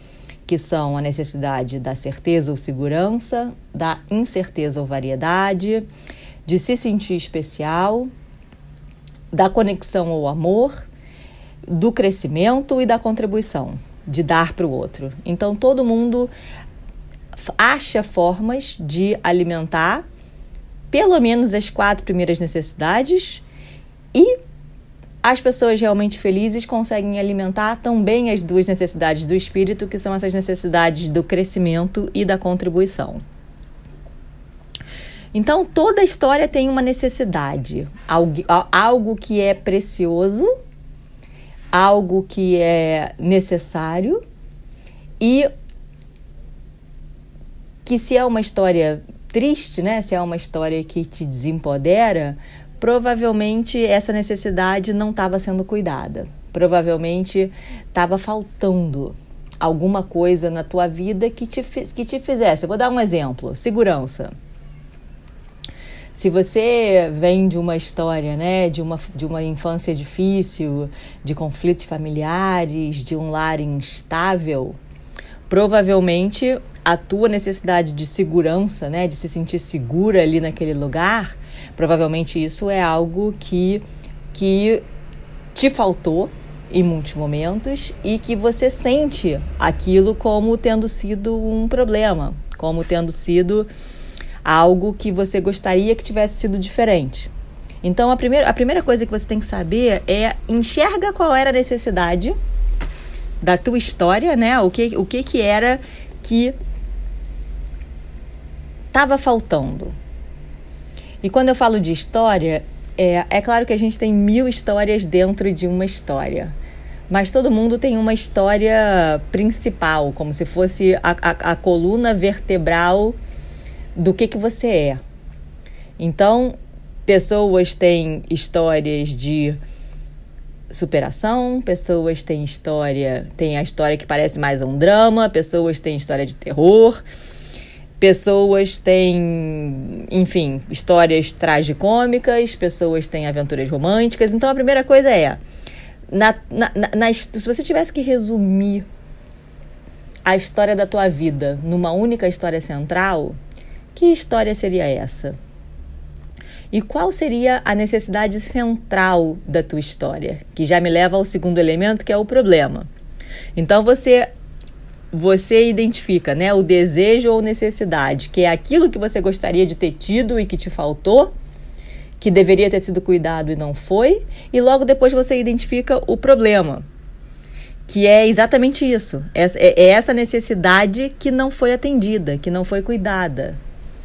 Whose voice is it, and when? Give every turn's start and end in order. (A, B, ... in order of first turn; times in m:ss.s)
0:00.5-0:05.9 A
0:06.5-0:08.1 A
0:09.3-0:10.9 A
0:11.7-0:16.3 A
0:17.4-0:20.0 A
0:20.9-0:23.4 A
0:25.2-0:33.2 A
0:35.3-0:40.5 A
0:41.7-0:44.2 A
0:45.2-0:45.5 A
0:47.9-1:04.3 A
1:06.1-1:14.8 A
1:15.5-1:24.8 A
1:25.6-1:33.7 A
1:34.4-1:37.3 A
1:37.8-1:42.4 A
1:43.4-1:46.6 A
1:48.9-1:49.9 A
1:51.2-1:56.6 A
1:57.1-2:03.2 A
2:04.0-2:05.0 A
2:06.0-2:09.6 A
2:10.7-2:17.0 A
2:18.0-2:25.4 A
2:26.1-2:28.9 A
2:30.3-2:33.4 A
2:34.0-2:35.4 A
2:36.7-2:42.9 A
2:43.6-2:44.3 A
2:45.1-2:51.3 A
2:52.2-2:56.8 A
2:57.9-3:03.6 A